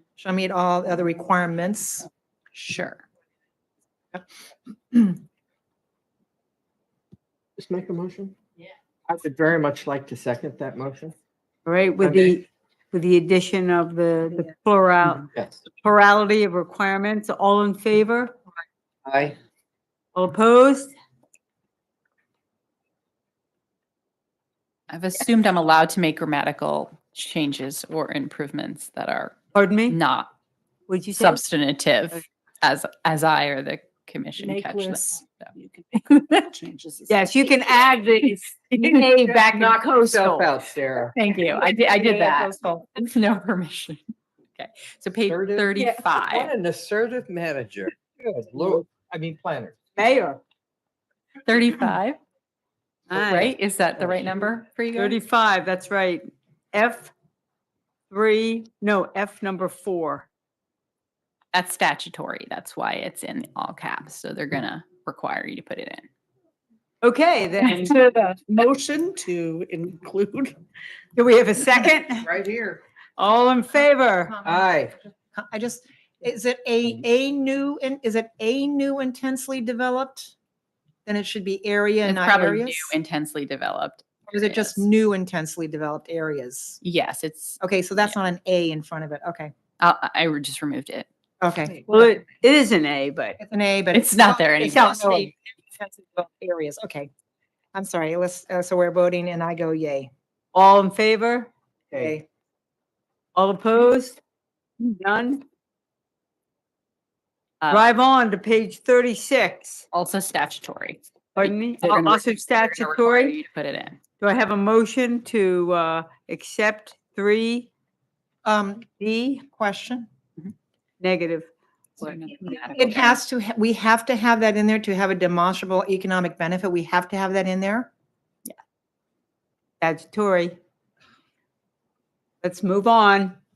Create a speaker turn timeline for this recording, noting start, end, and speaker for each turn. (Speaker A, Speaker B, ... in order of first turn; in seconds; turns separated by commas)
Speaker A: 0.2-2.1, Speaker B: 2.5-3.0, Speaker A: 4.9-5.2, Speaker C: 7.6-8.3, Speaker C: 9.1-11.1, Speaker D: 11.7-18.4, Speaker C: 12.0-12.3, Speaker C: 15.3-15.6, Speaker C: 19.1-19.4, Speaker D: 20.1-20.9, Speaker B: 24.9-29.4, Speaker D: 29.5-30.0, Speaker B: 29.9-30.3, Speaker D: 30.9-31.4, Speaker B: 31.1-35.5, Speaker B: 36.1-36.4, Speaker E: 36.5-36.9, Speaker D: 37.1-40.5, Speaker B: 38.8-39.0, Speaker C: 39.3-41.1, Speaker B: 41.1-44.0, Speaker A: 41.7-42.9, Speaker B: 44.5-46.5, Speaker C: 45.2-49.8, Speaker D: 50.0-50.4, Speaker B: 51.5-52.2, Speaker D: 53.1-53.5, Speaker B: 53.1-55.2, Speaker D: 54.9-57.1, Speaker D: 58.1-60.3, Speaker B: 61.5-66.0, Speaker D: 67.0-67.9, Speaker E: 67.7-70.5, Speaker D: 71.1-72.3, Speaker C: 72.2-72.8, Speaker D: 73.2-74.4, Speaker A: 74.3-80.3, Speaker C: 74.4-74.9, Speaker A: 81.0-82.9, Speaker B: 82.0-84.8, Speaker A: 84.3-86.8, Speaker B: 86.8-88.2, Speaker A: 87.6-89.5, Speaker B: 89.8-91.1, Speaker A: 91.4-92.1, Speaker D: 91.9-93.4, Speaker A: 93.4-97.1, Speaker B: 93.9-95.3, Speaker A: 97.7-100.1, Speaker D: 100.5-101.5, Speaker A: 101.9-102.2, Speaker D: 103.3-104.2, Speaker D: 104.8-105.4, Speaker B: 107.6-107.9, Speaker D: 107.7-109.8, Speaker B: 109.9-114.0, Speaker D: 111.4-113.4, Speaker D: 114.2-117.7, Speaker A: 118.4-118.9, Speaker D: 118.9-119.4, Speaker A: 119.4-120.1, Speaker D: 121.0-121.5, Speaker D: 122.0-122.9, Speaker B: 122.0-123.2, Speaker A: 122.7-127.9, Speaker D: 129.8-130.6, Speaker D: 132.4-133.4